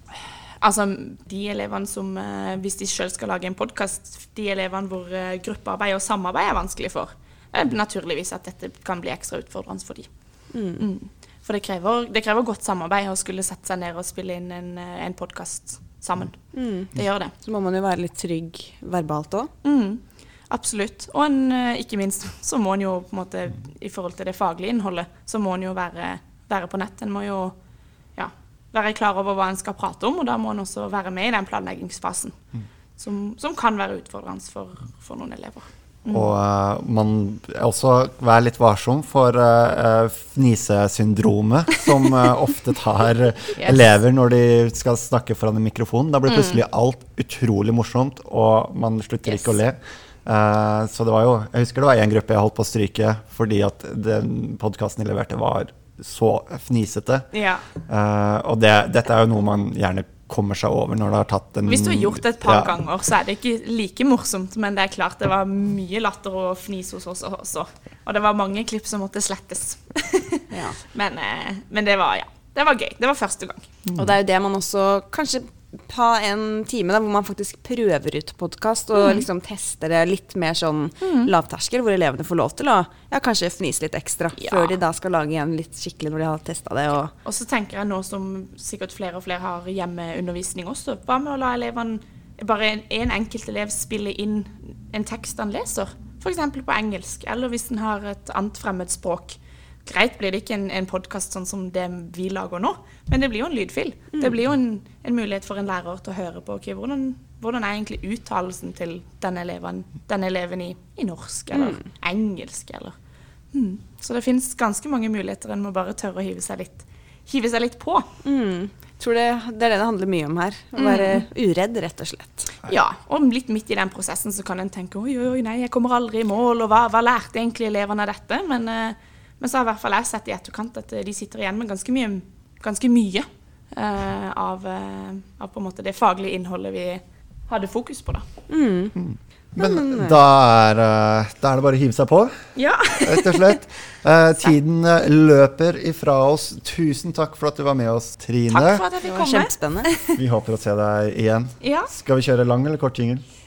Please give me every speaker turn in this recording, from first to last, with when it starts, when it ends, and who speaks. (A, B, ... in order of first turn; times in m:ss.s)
0:00.6-0:10.1 A
0:10.5-0:10.8 B
0:10.8-0:17.3 A
0:16.5-0:19.5 B
0:19.6-0:27.6 A
0:28.2-0:32.3 A
0:33.0-0:36.3 A
0:36.1-0:57.3 C
0:43.6-0:43.9 A
0:46.3-0:46.6 A
0:57.3-0:57.6 A
0:57.8-1:02.7 C
1:01.7-1:13.9 A
1:10.5-1:10.8 B
1:13.9-1:27.1 B
1:19.0-1:19.2 A
1:21.0-1:21.3 A
1:24.4-1:24.8 A
1:27.2-1:53.0 A
1:51.5-1:51.8 B
1:53.5-1:58.1 A
1:58.2-2:02.5 B
2:00.8-2:01.2 A
2:02.7-2:18.3 A
2:18.5-2:18.9 B
2:19.0-2:28.8 C
2:19.5-2:20.2 B
2:22.6-2:23.6 A
2:28.5-2:30.2 A
2:29.0-2:29.9 B
2:30.1-2:33.2 C
2:31.6-2:31.9 A